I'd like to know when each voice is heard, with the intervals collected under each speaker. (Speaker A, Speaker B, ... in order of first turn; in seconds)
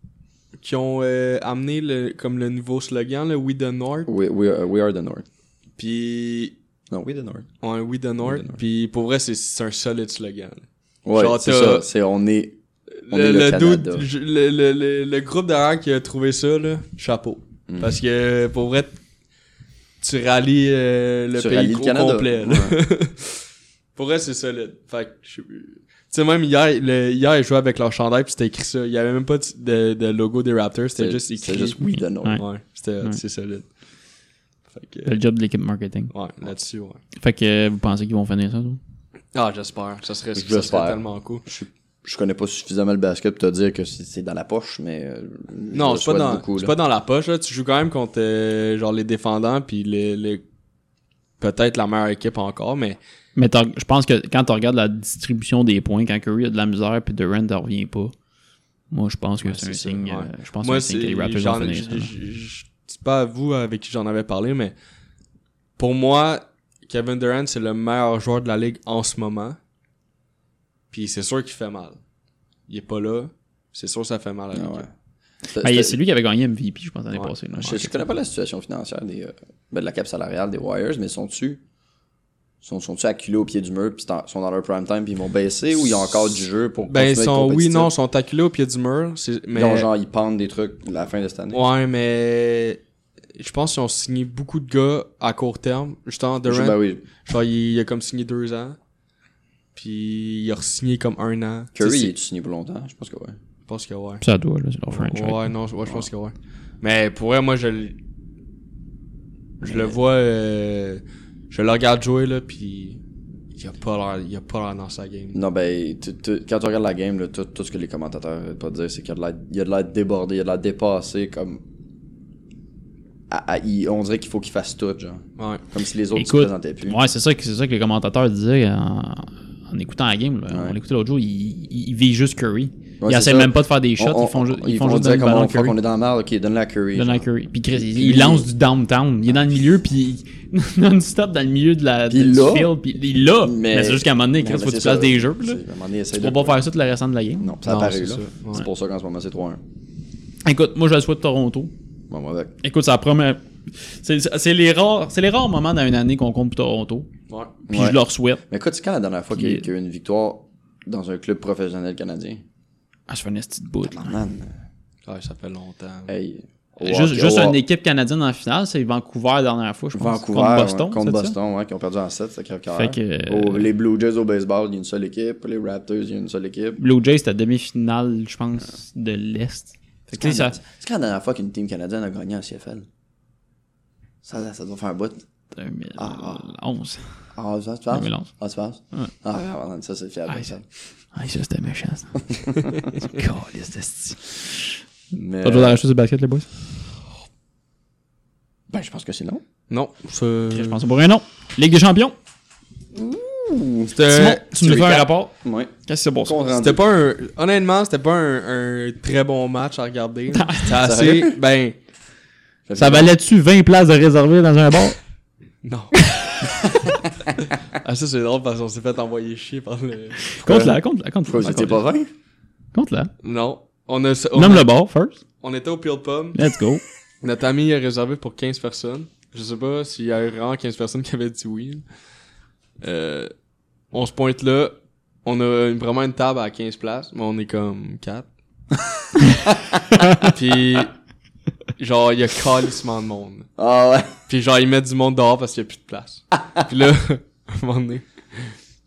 Speaker A: 0.6-4.1, 5.8-6.5, 7.6-11.8, 13.0-19.0, 20.0-31.8, 32.3-33.7, 34.7-35.1, 36.1-37.0, 39.3-41.4, 45.7-50.4, 51.4-53.0, 59.4-64.7, 65.8-69.6, 70.9-72.0, 72.7-74.9, 77.1-77.7, 85.8-86.3, 86.9-89.9, 91.5-92.8, 93.3-98.8, 99.8-102.1, 103.7-104.2, 104.9-108.0, 109.6-113.0, 113.5-115.4, 125.4-125.6, 147.6-148.7, 157.3-157.5, 165.1-166.1, 199.7-200.8, 203.9-204.5, 206.5-211.8, 215.6-216.7, 217.7-220.4, 223.2-224.7, 225.4-226.4, 227.2-231.8, 232.8-233.3, 233.9-238.3, 240.2-240.9, 241.8-243.5, 244.3-248.5
Speaker B: 4.0-5.2, 6.9-7.5, 8.2-8.6, 11.0-12.6, 13.1-14.1, 17.7-17.9, 21.3-22.8, 31.0-32.4, 40.3-46.7, 74.5-74.9, 75.5-76.0, 77.6-81.6, 82.6-87.9, 89.5-91.6, 96.5-97.0, 101.7-103.4, 109.6-110.0, 115.3-121.6, 123.3-127.0, 130.5-130.8, 133.0-138.5, 142.1-146.6, 147.4-149.6, 152.1-152.5, 157.7-158.0, 158.5-162.4, 163.8-164.5, 166.1-167.6, 169.9-176.8, 180.1-182.9, 184.2-185.2, 186.0-186.5, 187.3-190.7, 192.3-192.7, 195.1-195.8, 198.7-199.4, 202.9-204.0, 204.5-206.8, 210.7-211.4, 212.7-213.1, 220.4-222.1, 239.4-239.8, 243.6-244.2
Speaker C: 31.9-32.4, 35.0-36.1, 37.2-38.8, 53.4-58.1, 58.9-62.1, 75.6-78.0, 104.2-105.5, 126.2-135.8, 136.9-145.6, 146.1-147.6, 150.4-151.7, 152.6-157.1, 157.7-158.4, 159.3-159.6, 163.1-164.2, 166.8-171.3, 172.7-173.7, 176.8-180.6, 185.5-187.2, 187.9-188.3, 191.1-194.8, 195.4-196.5, 200.5-202.1, 204.1-205.3, 205.8-206.4, 210.3-210.7, 212.8-215.0, 220.3-221.8, 222.7-223.1, 224.3-225.2, 226.3-226.8